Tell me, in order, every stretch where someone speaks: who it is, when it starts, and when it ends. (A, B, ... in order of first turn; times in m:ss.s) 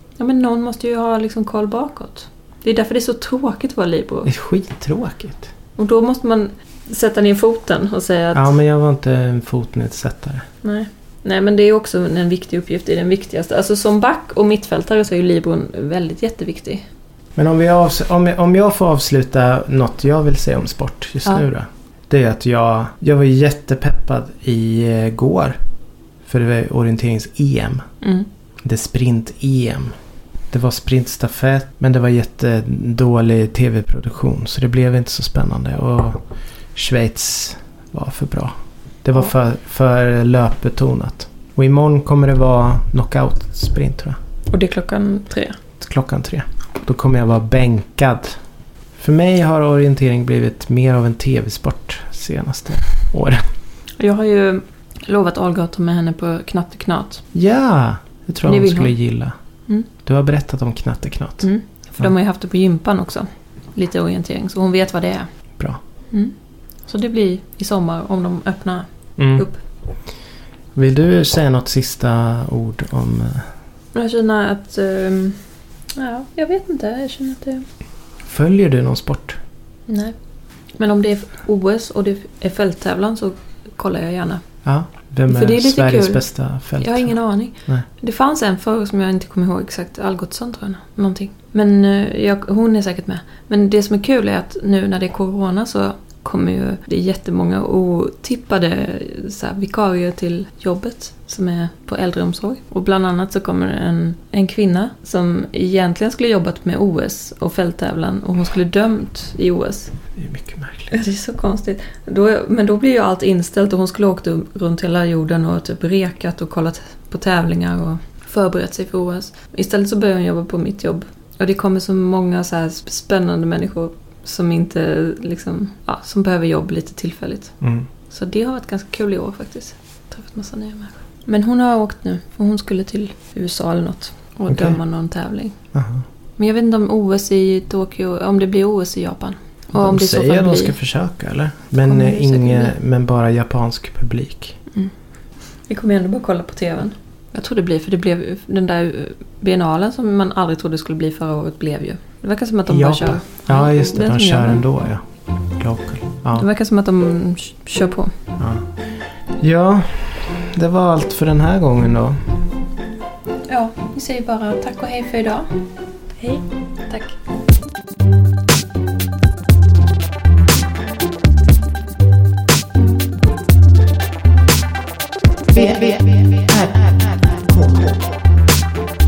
0:00.2-0:04.3 A
0:04.2-0:05.5 B
0:05.8-0:08.5 A
0:08.3-0:10.4 B
0:10.6-0:16.8 A
0:17.4-0:25.6 B
0:26.2-0:27.8 B
0:28.0-0:28.3 A
0:28.6-0:29.9 B
0:30.5-0:36.2 B
0:36.7-0:44.2 B
0:44.5-0:45.6 A
0:45.8-0:48.4 B
0:49.0-0:53.4 B
0:54.0-0:57.2 A
0:57.3-0:59.3 B
0:58.4-0:59.0 A
1:00.0-1:02.1 B
1:01.4-1:05.3 A
1:06.9-1:09.6 A
1:09.2-1:09.5 B
1:10.7-1:13.5 B
1:13.9-1:15.4 A
1:16.0-1:17.6 A
1:18.2-1:19.4 B
1:19.9-1:20.1 A
1:20.8-1:24.4 A
1:24.6-1:27.8 B
1:25.3-1:26.2 A
1:26.8-1:49.9 A
1:50.2-1:51.0 B
1:50.9-2:07.6 A
2:07.6-2:07.8 B
2:08.1-2:15.6 A
2:14.5-2:14.8 B
2:15.7-2:16.0 B
2:16.4-2:20.8 A
2:19.7-2:24.6 B
2:21.8-2:22.7 A
2:25.7-2:34.6 A
2:32.7-2:35.0 B
2:35.6-2:36.4 B
2:36.3-2:38.1 A
2:38.4-2:38.7 B
2:39.4-2:42.3 B
2:43.5-2:45.6 A
2:46.2-2:47.2 A
2:55.5-2:58.1 C